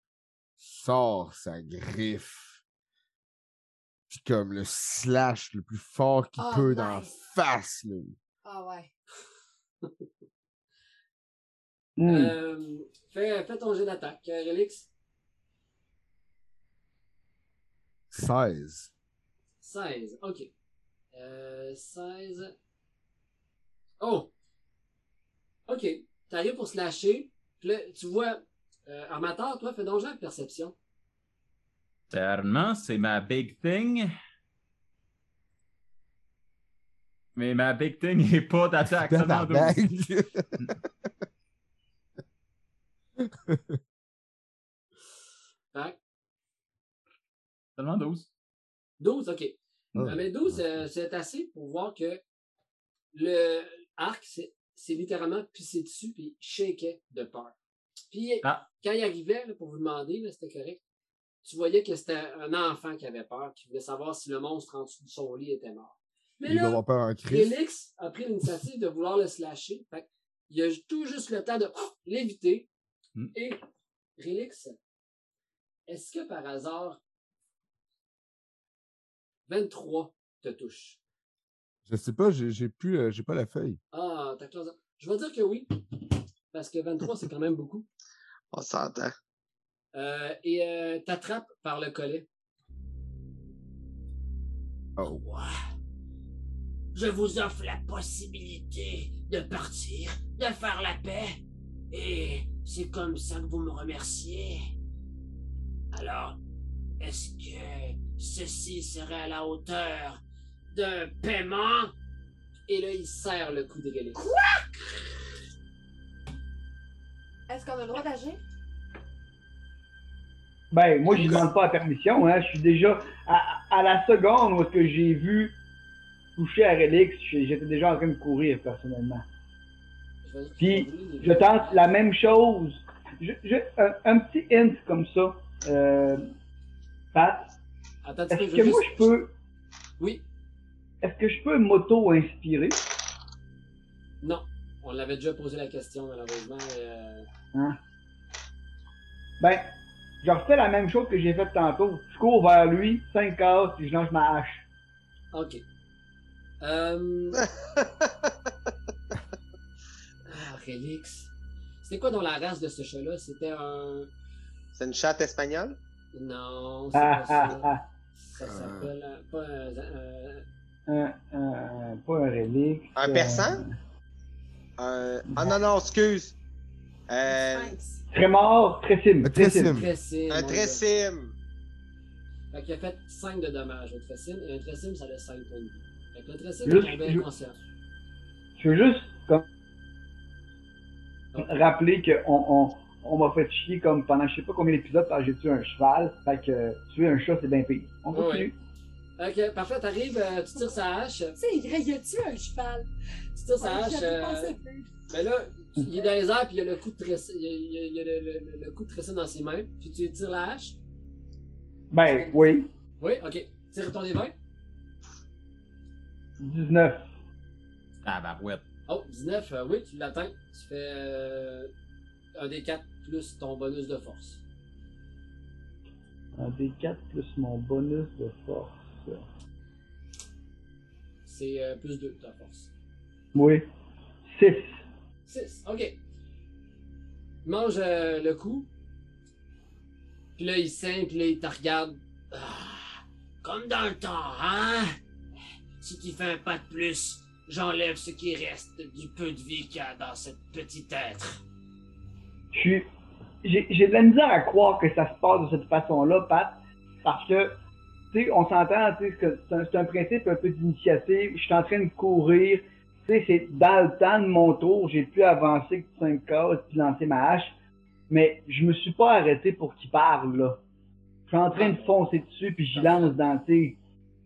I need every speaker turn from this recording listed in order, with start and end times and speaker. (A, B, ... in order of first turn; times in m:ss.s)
0:00.6-0:02.6 A
0:04.1-0:08.2 A
0:06.4-0:07.2 B
0:08.4-0:08.9 B
0:12.0-0:12.3 C
0:12.1-0:14.9 D
0:18.1-0:18.9 A
0:19.6-0:20.5 D
0:21.1-0:22.5 D
0:24.0-0:24.3 D
0:25.7-0:30.7 D
0:32.1-0:34.1 E
0:37.4-0:39.9 E
0:39.0-0:40.7 A
0:43.3-0:43.6 A
0:47.8-0:48.3 E
0:49.0-0:52.2 D
0:49.9-0:50.8 A
0:53.1-0:57.5 D
0:58.1-1:00.8 D
1:01.4-1:12.7 D
1:06.4-1:07.6 A
1:13.3-1:13.6 D
1:14.2-1:14.8 D
1:15.9-1:17.0 D
1:19.5-1:21.0 D
1:21.9-1:23.8 A
1:23.9-1:25.7 D
1:26.5-1:27.9 D
1:28.5-1:29.1 F
1:29.9-1:32.3 D
1:35.0-1:35.2 A
1:35.0-1:35.5 D
1:36.9-1:41.4 D
1:41.9-1:44.6 D
1:45.9-1:46.4 D
1:47.0-1:51.9 D
1:52.7-1:54.3 D
1:57.5-1:58.4 B
2:00.7-2:05.6 C
2:06.4-2:09.2 C
2:10.2-2:11.8 D
2:10.6-2:16.3 C
2:17.1-2:17.5 C
2:18.0-2:19.1 D
2:18.3-2:19.3 C
2:21.0-2:22.8 C
2:24.2-2:27.3 D
2:27.5-2:27.8 C
2:29.4-2:34.6 C
2:35.3-2:35.6 D
2:36.6-2:37.5 D
2:37.4-2:38.1 F
2:40.3-2:41.3 D
2:41.8-2:44.1 D
2:44.7-2:45.8 F
2:46.1-2:47.7 D
2:46.9-2:47.8 C
2:48.2-2:50.4 D
2:48.4-2:48.9 A
2:50.9-2:53.8 C
2:52.9-2:53.6 F
2:54.8-2:56.3 F
2:57.1-2:57.7 F
2:57.2-2:58.0 B
2:58.1-2:59.8 C
2:59.2-2:59.9 A
2:59.6-3:00.8 D
3:00.3-3:01.3 F
3:02.5-3:07.6 D
3:06.6-3:07.2 C
3:08.6-3:09.4 C
3:11.4-3:18.6 C
3:18.1-3:18.5 D
3:19.2-3:21.4 D
3:21.4-3:22.9 B
3:23.4-3:24.5 D
3:23.6-3:24.9 B
3:25.1-3:30.8 D
3:31.9-3:32.7 C
3:33.0-3:34.3 D
3:36.4-3:37.1 C
3:38.0-3:38.6 E
3:38.9-3:41.7 D
3:42.4-3:44.4 D
3:46.4-3:49.2 C
3:51.2-3:52.7 D
3:53.3-3:53.7 C
3:54.3-3:54.8 C
3:55.2-3:56.0 D
3:57.4-3:58.7 D
4:00.4-4:04.9 D
4:05.8-4:11.4 D
4:12.5-4:12.9 C
4:13.4-4:17.6 C
4:18.1-4:27.5 C
4:28.1-4:30.6 C
4:31.3-4:33.8 C
4:31.5-4:32.0 D
4:32.7-4:33.2 D